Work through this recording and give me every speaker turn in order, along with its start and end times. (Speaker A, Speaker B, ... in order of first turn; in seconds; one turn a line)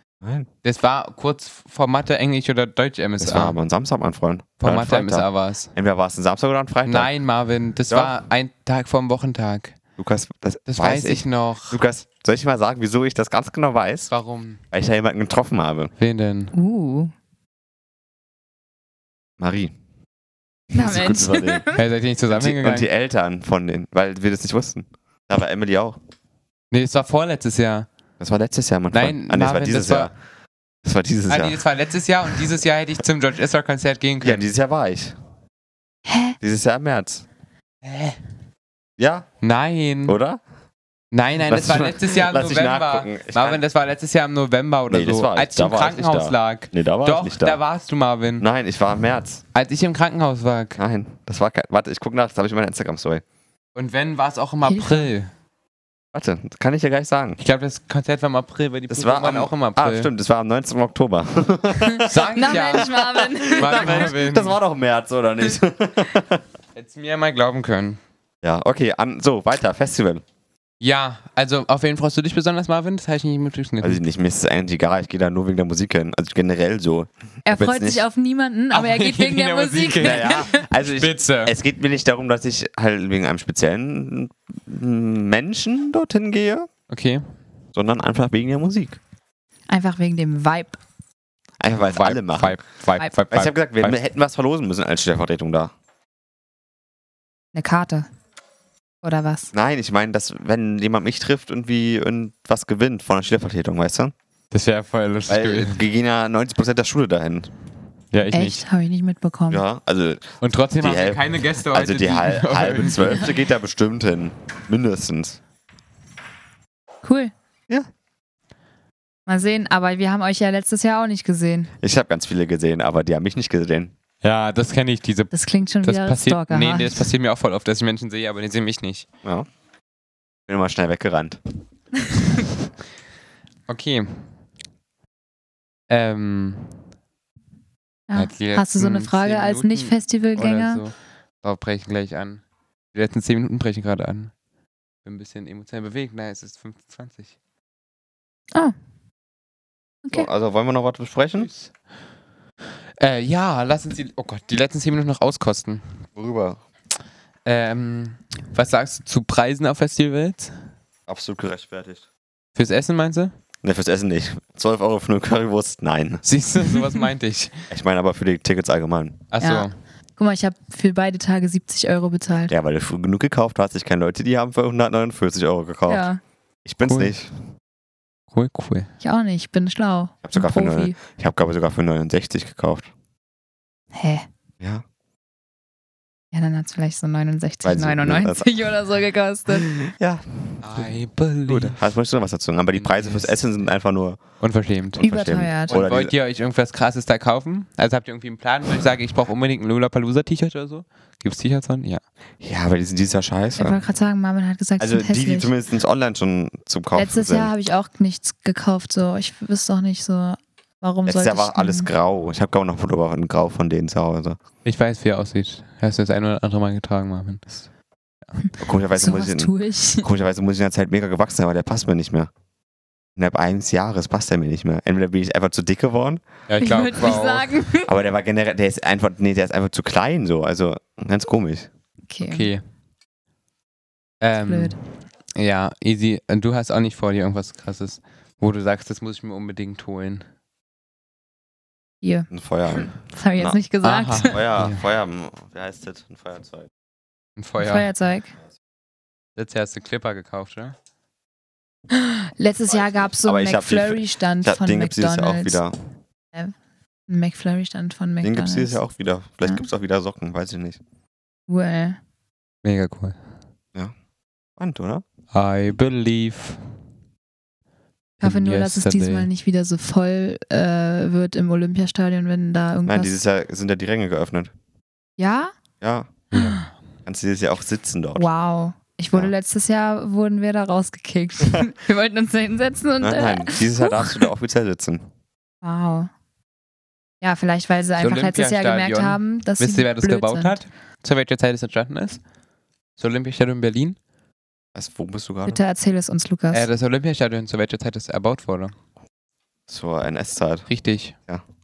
Speaker A: 0.2-0.5
Speaker B: 0.6-3.6
Speaker A: 3.2-7.1
Speaker B: 4.6-5.7
Speaker B: 6.8-9.7
Speaker A: 7.9-8.2
Speaker A: 10.0-14.1
Speaker B: 10.7-11.8
Speaker B: 14.1-14.6
Speaker A: 14.7-15.9
Speaker B: 16.0-16.5
Speaker C: 16.5-17.1
Speaker A: 19.4-19.7
Speaker A: 20.7-21.7
Speaker C: 20.7-21.8
Speaker B: 21.7-22.9
Speaker A: 22.3-26.0
Speaker B: 26.7-27.9
Speaker A: 28.2-30.1
Speaker B: 28.9-30.1
Speaker A: 30.8-31.6
Speaker B: 31.3-34.4
Speaker A: 34.2-35.1
Speaker C: 36.0-36.4
Speaker A: 36.4-37.2
Speaker B: 37.8-38.2
Speaker A: 39.0-39.3
Speaker B: 39.4-40.2
Speaker A: 40.0-40.4
Speaker B: 41.1-48.4
Speaker A: 41.5-43.6
Speaker A: 44.9-47.6
Speaker A: 48.4-49.4
Speaker B: 49.5-50.8
Speaker A: 50.8-53.2
Speaker B: 53.7-55.3
Speaker C: 54.6-55.1
Speaker A: 56.1-57.4
Speaker B: 57.4-60.1
Speaker A: 58.9-66.4
Speaker C: 62.0-64.1
Speaker B: 62.0-64.6
Speaker B: 66.8-68.0
Speaker A: 68.4-70.2
Speaker B: 70.8-74.0
Speaker A: 73.8-78.0
Speaker C: 77.4-80.7
Speaker B: 78.7-81.5
Speaker A: 80.0-86.7
Speaker B: 86.9-87.2
Speaker A: 87.7-89.0
Speaker C: 89.7-90.8
Speaker A: 91.6-92.6
Speaker B: 91.8-94.0
Speaker A: 93.3-95.7
Speaker C: 97.5-98.1
Speaker C: 99.0-99.5
Speaker A: 99.5-104.1
Speaker B: 104.5-105.8
Speaker A: 105.3-107.5
Speaker B: 108.1-108.6
Speaker C: 108.3-109.6
Speaker A: 109.5-115.4
Speaker B: 110.4-113.3
Speaker C: 117.0-117.3
Speaker C: 119.3-121.7
Speaker A: 121.8-123.9
Speaker B: 124.2-129.1
Speaker C: 125.3-127.1
Speaker A: 130.5-131.4
Speaker B: 133.7-134.3
Speaker B: 135.9-136.8
Speaker C: 138.1-140.8
Speaker B: 138.1-144.3
Speaker B: 145.0-147.3
Speaker A: 150.1-151.5
Speaker B: 151.4-151.7
Speaker B: 153.0-156.1
Speaker A: 156.2-156.6
Speaker B: 157.4-160.5
Speaker A: 161.1-162.0
Speaker B: 162.6-163.3
Speaker A: 163.6-166.2
Speaker B: 166.2-167.6
Speaker A: 167.7-169.2
Speaker B: 169.3-169.7
Speaker C: 169.4-172.5
Speaker A: 172.5-176.1
Speaker C: 175.9-176.2
Speaker A: 176.6-177.3
Speaker B: 176.8-177.1
Speaker B: 178.3-178.9
Speaker C: 179.0-181.0
Speaker A: 180.2-182.9
Speaker C: 183.9-184.2
Speaker C: 186.3-189.8
Speaker A: 187.6-188.5
Speaker A: 189.8-190.9
Speaker B: 190.6-191.8
Speaker A: 191.5-194.2
Speaker B: 192.7-193.4
Speaker B: 194.4-195.0
Speaker A: 195.0-196.1
Speaker C: 195.0-195.8
Speaker B: 195.7-202.0
Speaker A: 202.4-203.8
Speaker C: 203.6-205.5
Speaker A: 204.8-207.5
Speaker C: 206.9-211.9
Speaker A: 211.1-214.4
Speaker B: 214.6-217.6
Speaker C: 218.4-220.1
Speaker A: 218.6-222.3
Speaker A: 223.2-226.2
Speaker B: 226.5-227.5
Speaker C: 226.6-227.9
Speaker A: 227.8-231.7
Speaker C: 232.1-232.5
Speaker B: 232.2-232.6
Speaker B: 234.2-234.8
Speaker C: 234.3-234.8
Speaker B: 235.3-240.2
Speaker C: 242.0-242.3
Speaker A: 242.3-243.6
Speaker C: 242.8-244.4
Speaker B: 243.8-244.8
Speaker A: 244.3-246.7
Speaker B: 247.4-247.9
Speaker C: 247.6-248.3
Speaker B: 249.3-250.8
Speaker C: 251.9-255.6
Speaker A: 253.2-255.7
Speaker C: 257.1-258.8
Speaker A: 258.2-260.8
Speaker C: 261.5-262.0
Speaker B: 262.6-263.2
Speaker A: 264.6-265.0
Speaker B: 265.3-266.6
Speaker B: 268.2-269.3
Speaker C: 268.2-273.1
Speaker A: 272.8-274.5
Speaker C: 275.2-275.5
Speaker A: 275.8-276.1
Speaker B: 276.3-276.7
Speaker A: 277.1-278.2
Speaker C: 278.2-284.3
Speaker A: 283.0-285.1
Speaker C: 285.6-286.1
Speaker C: 287.2-290.6
Speaker B: 288.0-292.2
Speaker B: 293.0-294.0
Speaker A: 294.7-295.6
Speaker C: 295.4-296.7
Speaker B: 296.5-298.7
Speaker A: 299.7-300.7
Speaker B: 300.7-301.1